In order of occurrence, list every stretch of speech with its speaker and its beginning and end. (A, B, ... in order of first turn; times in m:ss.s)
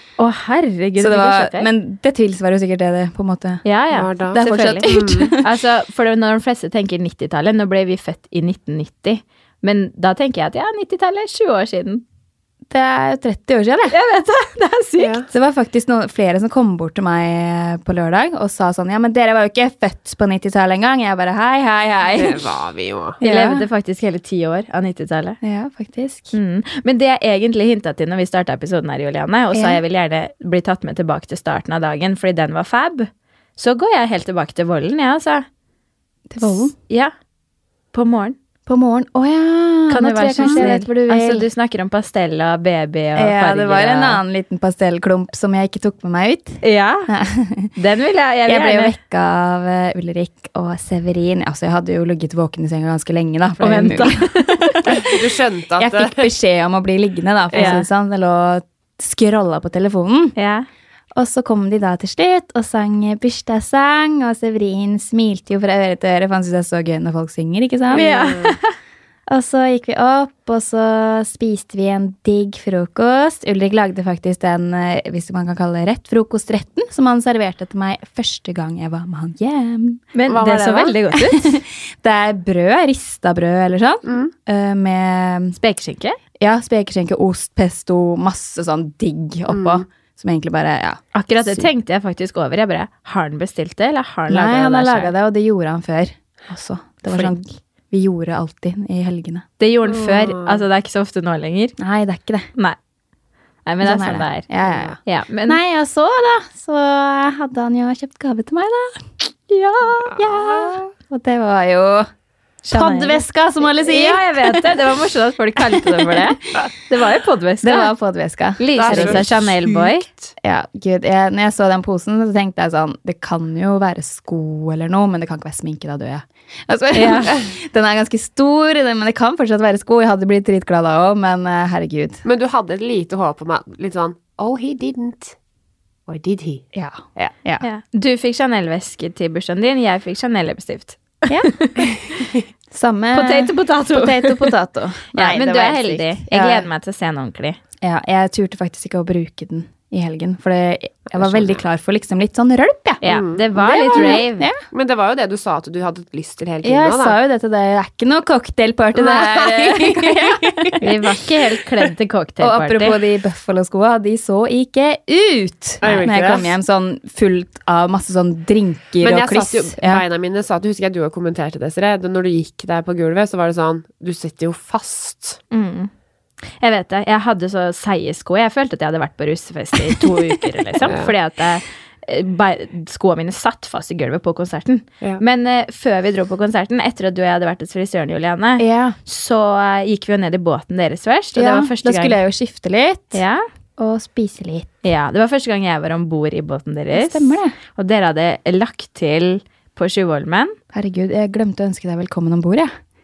0:00.2-0:01.7 A
0:01.0-0:03.6 B
0:03.6-0:04.9 A
0:03.9-0:05.4 C
0:04.3-0:05.5 B
0:05.4-0:12.0 A
0:12.7-0:14.0 B
0:13.9-0:15.2 A
0:15.0-0:15.3 C
0:15.3-0:22.4 B
0:22.2-0:23.2 C
0:23.2-0:23.7 B
0:23.2-0:25.4 A
0:25.4-0:26.3 B
0:26.3-0:35.5 A
0:29.5-0:29.8 B
0:36.3-0:36.7 B
0:36.4-0:37.1 A
0:37.9-0:38.4 A
0:38.7-0:41.5 B
0:39.9-0:44.2 A
0:40.4-0:40.7 C
0:43.2-0:47.7 B
0:46.6-0:47.1 A
0:47.8-0:49.0 A
0:48.5-0:55.1 B
0:53.6-0:55.0 A
0:54.9-0:56.3 C
0:55.8-1:00.4 B
0:57.5-0:57.8 C
0:57.5-0:57.8 A
1:00.4-1:00.7 A
1:01.2-1:08.2 B
1:07.9-1:08.7 A
1:07.9-1:08.6 C
1:09.3-1:20.0 B
1:20.1-1:21.6 A
1:20.3-1:21.0 C
1:21.1-1:25.6 B
1:25.6-1:26.2 A
1:26.4-1:31.7 B
1:29.5-1:29.8 C
1:31.1-1:35.1 A
1:34.3-1:39.5 B
1:39.6-1:41.8 A
1:39.9-1:40.6 C
1:41.8-1:42.5 B
1:43.7-1:44.5 A
1:43.8-1:52.1 B
1:44.6-1:45.0 C
1:45.0-1:45.6 A
1:49.5-1:50.1 A
1:50.2-1:50.7 C
1:52.6-1:57.9 A
1:52.7-1:54.8 B
1:55.8-1:56.1 B
1:57.6-1:59.3 B
1:58.6-2:00.1 A
1:58.8-2:00.1 C
2:00.4-2:12.2 B
2:06.9-2:07.4 A
2:12.2-2:15.4 C
2:16.1-2:17.3 C
2:16.7-2:17.6 B
2:17.6-2:22.2 A
2:22.7-2:26.7 B
2:23.1-2:24.6 A
2:25.1-2:27.6 A
2:27.8-2:33.0 B
2:31.2-2:31.6 C
2:33.0-2:34.5 A
2:33.1-2:37.2 C
2:33.8-2:34.6 B
2:36.6-2:40.8 B
2:38.9-2:40.9 C
2:40.8-2:43.0 A
2:42.4-2:50.0 B
2:45.8-2:46.5 C
2:49.0-2:55.4 C
2:55.5-2:55.9 A
2:56.6-3:12.2 A
3:00.8-3:01.1 C
3:08.6-3:09.0 B
3:11.4-3:13.2 B
3:13.1-3:13.4 A
3:13.8-3:14.7 B
3:14.8-3:20.6 A
3:16.9-3:17.6 B
3:20.7-3:22.7 B